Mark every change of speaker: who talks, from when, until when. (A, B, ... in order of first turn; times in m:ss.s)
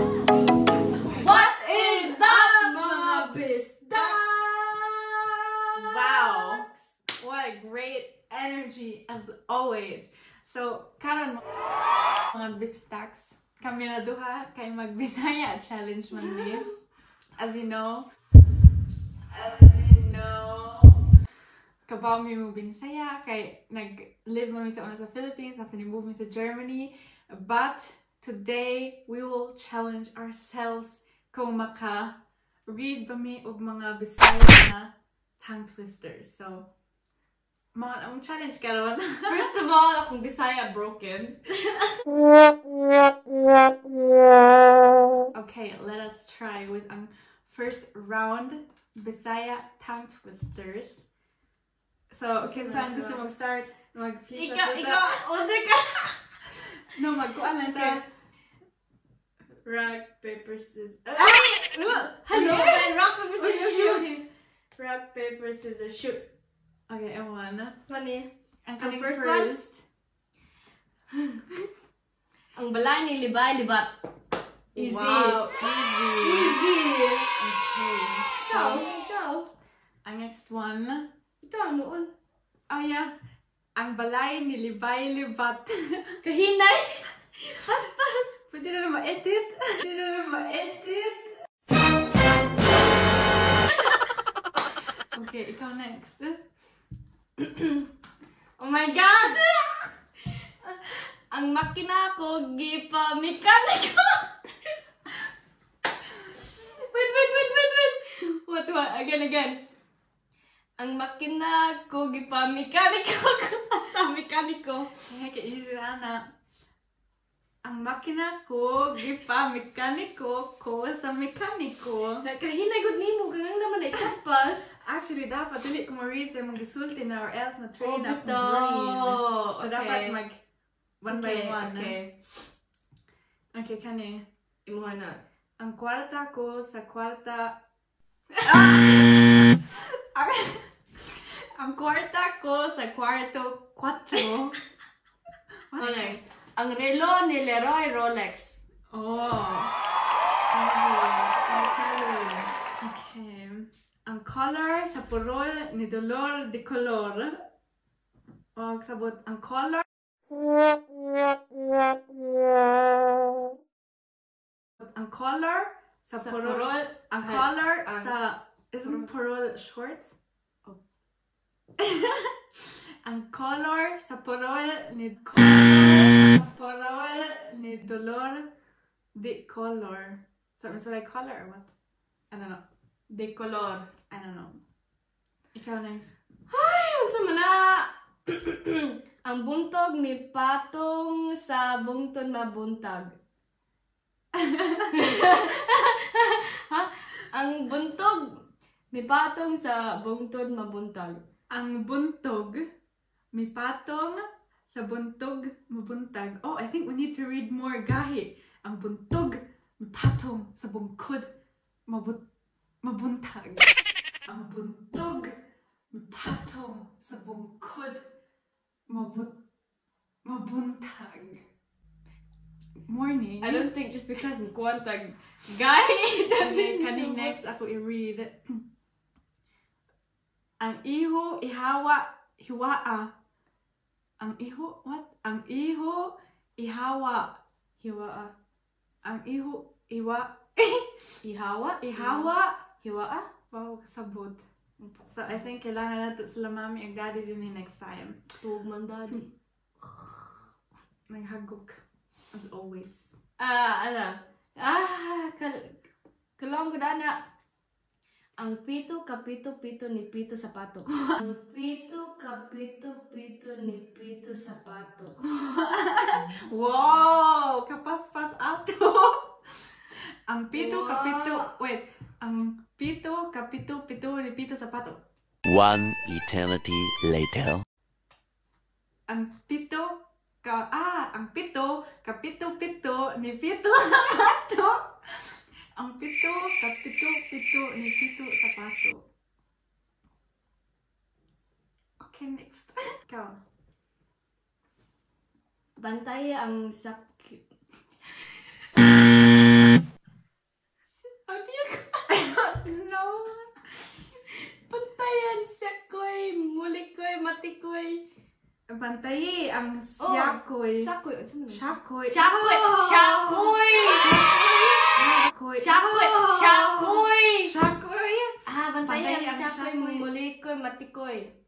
0:00.9-0:03.3 A
0:01.2-0:06.8 B
0:03.9-0:04.2 A
0:05.8-0:11.4 A
0:12.2-0:16.7 A
0:17.4-0:18.1 A
0:19.3-0:21.1 A
0:21.8-0:36.7 A
0:37.7-0:39.5 A
0:39.3-0:42.0 B
0:45.3-0:51.1 A
0:52.1-0:55.1 A
0:52.4-0:53.2 B
0:54.3-0:56.2 B
0:56.9-0:58.0 A
0:57.6-0:58.0 B
0:59.6-1:04.2 B
1:01.2-1:04.2 A
1:04.8-1:06.2 B
1:06.9-1:07.8 A
1:07.9-1:09.5 B
1:08.6-1:09.8 A
1:12.6-1:13.9 B
1:14.7-1:15.6 B
1:14.8-1:16.6 A
1:16.2-1:17.3 B
1:17.4-1:18.9 A
1:18.4-1:19.5 B
1:20.0-1:21.1 A
1:21.4-1:22.1 B
1:22.7-1:23.1 A
1:23.8-1:26.2 A
1:26.2-1:28.3 B
1:28.5-1:31.3 A
1:35.1-1:36.4 A
1:37.4-1:37.8 B
1:38.6-1:39.8 B
1:40.6-1:44.3 B
1:46.6-1:49.6 B
1:50.8-1:54.9 B
1:55.1-1:56.3 A
1:57.6-2:02.2 A
2:02.2-2:04.7 B
2:04.8-2:10.4 A
2:07.8-2:10.2 B
2:11.0-2:11.9 A
2:11.1-2:12.1 B
2:13.5-2:14.2 A
2:14.6-2:15.2 B
2:15.6-2:17.6 A
2:18.4-2:24.6 A
2:25.7-2:26.2 A
2:25.8-2:28.6 B
2:28.9-2:29.7 A
2:30.5-2:32.5 B
2:32.8-2:37.4 A
2:38.6-2:39.8 A
2:44.8-2:50.2 A
2:46.1-2:48.1 B
2:48.8-2:49.1 B
2:51.8-2:52.3 A
2:53.0-2:58.5 A
2:59.2-3:01.7 A
3:02.3-3:02.6 A
3:03.1-3:03.9 B
3:04.1-3:04.6 A
3:05.5-3:06.1 A
3:06.5-3:13.1 B
3:14.4-3:14.9 A
3:14.9-3:21.2 B
3:21.5-3:22.7 A
3:23.3-3:31.3 A
3:31.9-3:32.2 A
3:32.8-3:33.7 A
3:34.3-3:35.4 A
3:35.9-3:38.0 A
3:38.9-3:39.4 A
3:40.2-3:41.4 A
3:42.9-3:43.7 A
3:43.4-3:47.4 B
3:46.3-3:48.6 A
3:50.6-3:53.1 A
3:54.2-3:57.4 A
3:57.8-3:58.3 B
3:59.0-4:01.0 A
4:01.2-4:02.3 B
4:01.8-4:02.6 A
4:02.8-4:03.3 B
4:03.5-4:04.4 A
4:04.8-4:05.4 B
4:05.1-4:08.2 A
4:08.4-4:09.3 B
4:09.8-4:10.2 B
4:11.1-4:11.8 A
4:12.3-4:13.1 A
4:13.4-4:15.7 B
4:16.4-4:17.2 B
4:18.4-4:25.2 B
4:25.3-4:29.4 A
4:30.3-4:35.0 A
4:30.5-4:31.5 B
4:35.4-4:37.6 C
4:39.1-4:45.0 A
4:45.8-4:49.1 A
4:52.0-4:53.4 A
4:55.8-4:57.4 B
5:01.2-5:02.1 B
5:02.1-5:03.6 A
5:04.3-5:08.0 B
5:08.7-5:10.9 A
5:10.0-5:14.2 B
5:11.5-5:20.0 A
5:15.0-5:17.5 B
5:18.4-5:21.3 B